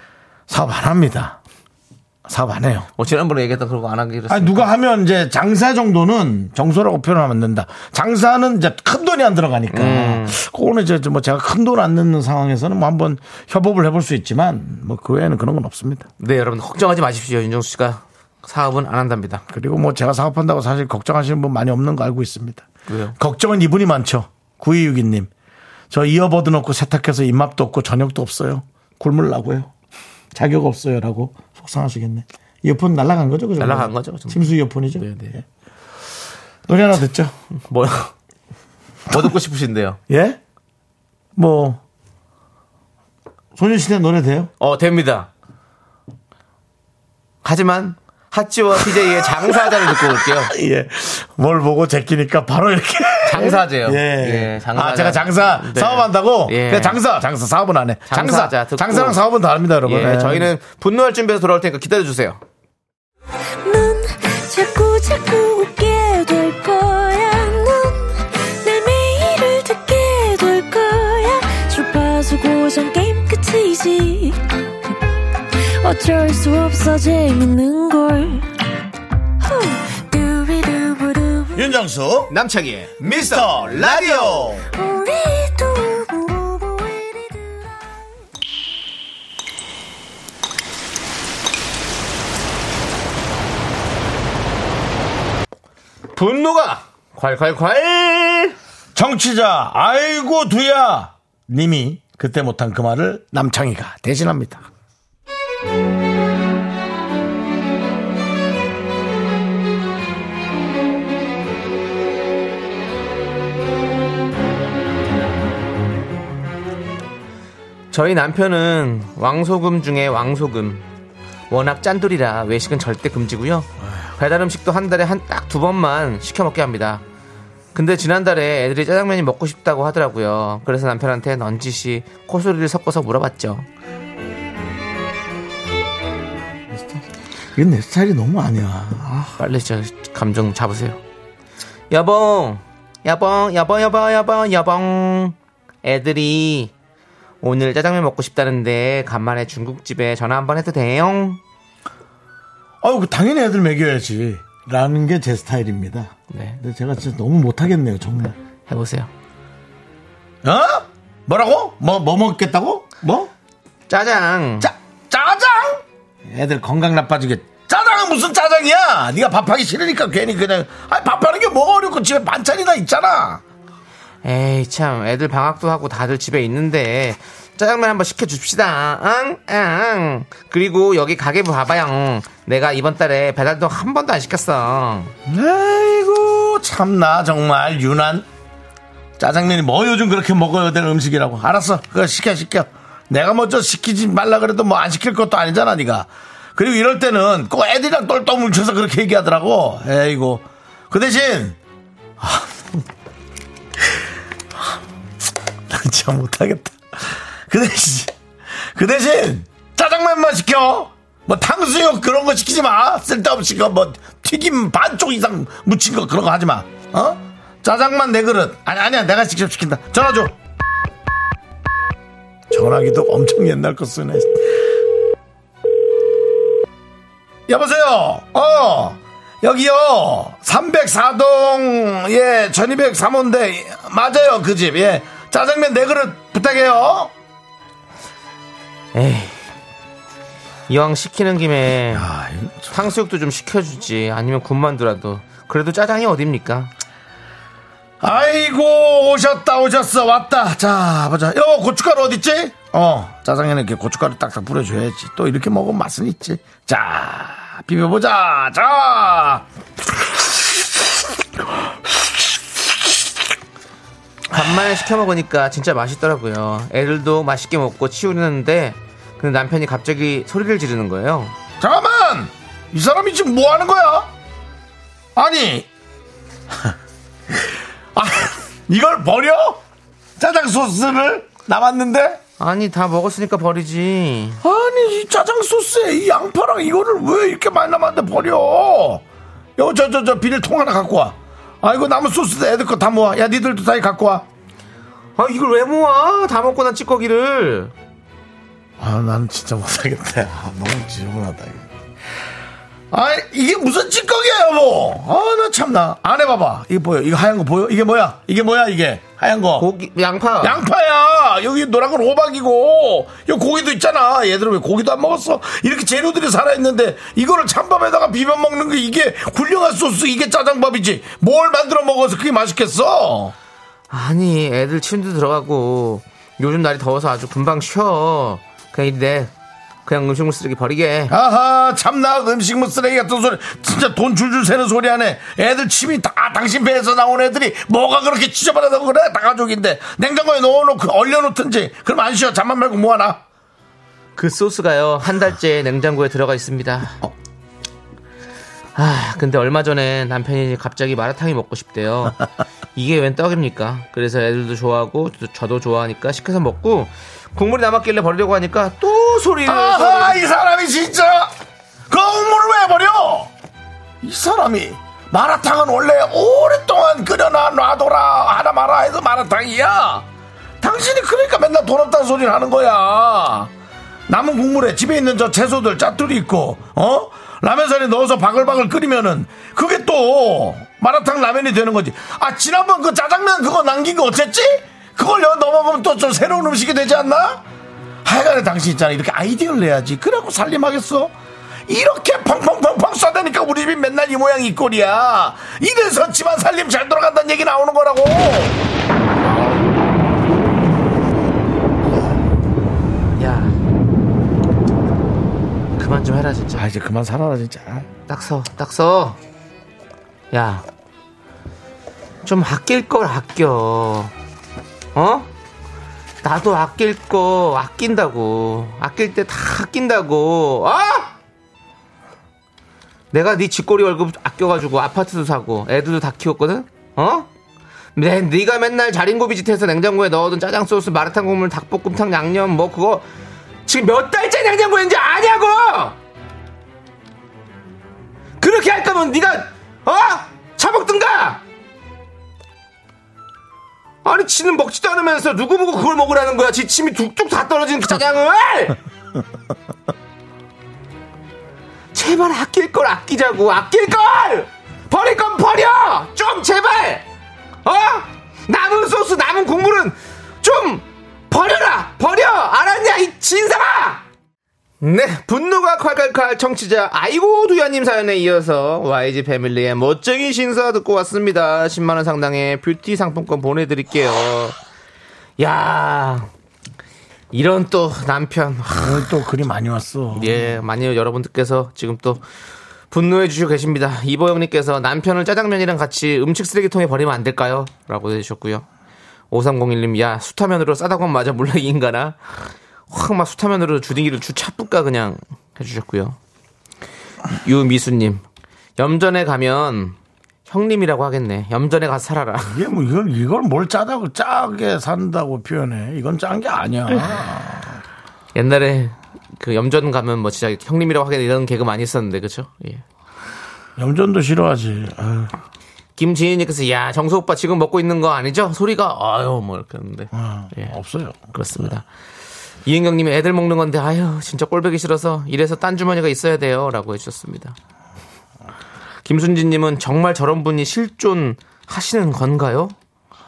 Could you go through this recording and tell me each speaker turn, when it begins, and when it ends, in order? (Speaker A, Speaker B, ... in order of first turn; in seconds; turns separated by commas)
Speaker A: 0.5-1.4, Speaker A: 2.3-2.9, Speaker B: 3.0-4.7, Speaker A: 4.3-16.1, Speaker B: 9.7-10.4, Speaker B: 16.2-19.4, Speaker A: 19.5-25.3, Speaker B: 22.9-23.1, Speaker A: 25.9-29.7, Speaker A: 30.3-35.4, Speaker B: 33.6-35.4, Speaker A: 36.7-37.4, Speaker B: 37.6-38.1, Speaker B: 39.1-40.0, Speaker A: 40.1-40.4, Speaker A: 41.4-41.8, Speaker A: 43.5-44.5, Speaker B: 44.6-45.3, Speaker B: 47.4-50.5, Speaker A: 48.9-60.5, Speaker B: 53.3-57.0, Speaker B: 58.1-59.2, Speaker B: 59.8-62.4, Speaker C: 63.6-74.4, Speaker C: 75.6-78.5, Speaker C: 79.4-81.7, Speaker A: 81.5-82.3, Speaker B: 82.3-84.6, Speaker A: 83.0-84.7, Speaker C: 84.7-87.7, Speaker B: 96.1-98.6, Speaker A: 99.0-104.7, Speaker B: 117.9-120.8, Speaker B: 121.5-127.0, Speaker B: 127.8-133.7, Speaker A: 136.7-139.4, Speaker B: 139.4-141.0, Speaker B: 141.9-146.7, Speaker B: 147.4-151.4, Speaker A: 152.8-158.3, Speaker B: 156.3-156.6, Speaker B: 158.7-159.1, Speaker A: 160.4-163.3, Speaker B: 163.9-164.7, Speaker A: 164.6-173.4, Speaker B: 174.2-185.1, Speaker A: 185.3-188.3, Speaker A: 189.2-201.6, Speaker A: 202.2-202.8, Speaker A: 205.7-208.1, Speaker A: 208.7-220.4, Speaker A: 222.5-224.7, Speaker A: 227.5-237.1, Speaker B: 238.9-239.4, Speaker B: 240.7-242.1, Speaker A: 241.9-242.9, Speaker B: 242.7-246.7, Speaker A: 248.0-259.5, Speaker B: 264.3-271.4, Speaker A: 271.6-274.1, Speaker A: 275.1-275.7, Speaker A: 277.3-279.6, Speaker A: 280.2-282.2, Speaker B: 282.4-284.4, Speaker A: 284.4-289.0, Speaker A: 289.6-294.3, Speaker B: 295.2-297.7, Speaker A: 298.8-301.7, Speaker A: 302.9-309.7, Speaker B: 309.6-310.6, Speaker A: 310.4-323.4, Speaker B: 323.9-329.3, Speaker B: 329.9-331.1, Speaker A: 331.1-343.2, Speaker B: 344.2-347.0, Speaker B: 348.8-352.2, Speaker B: 352.8-360.2, Speaker A: 359.4-361.3, Speaker A: 361.9-363.3, Speaker A: 364.0-370.1, Speaker A: 370.6-373.5, Speaker A: 374.1-387.4, Speaker A: 388.1-391.1, Speaker A: 391.7-398.6, Speaker B: 403.1-403.6, Speaker B: 405.8-406.7, Speaker A: 406.6-407.9, Speaker B: 408.1-409.2, Speaker B: 410.3-410.6, Speaker B: 412.2-414.1, Speaker B: 414.9-415.3, Speaker B: 416.2-421.1, Speaker B: 423.1-427.3, Speaker B: 428.0-433.1, Speaker B: 433.7-436.0, Speaker B: 438.4-441.4, Speaker B: 444.0-448.8, Speaker B: 451.9-457.1, Speaker B: 457.6-464.0, Speaker B: 464.8-474.6, Speaker B: 475.4-476.3, Speaker B: 477.3-479.1, Speaker A: 478.8-480.5, Speaker B: 480.1-482.2, Speaker B: 482.9-488.7, Speaker B: 489.3-496.2, Speaker B: 497.4-498.2, Speaker B: 498.8-500.0, Speaker B: 500.5-502.6, Speaker A: 502.5-507.8, Speaker B: 508.4-512.8, Speaker A: 513.8-515.4, Speaker B: 516.0-520.8, Speaker A: 520.1-521.7, Speaker B: 521.3-521.9, Speaker B: 522.6-527.6, Speaker B: 529.0-532.8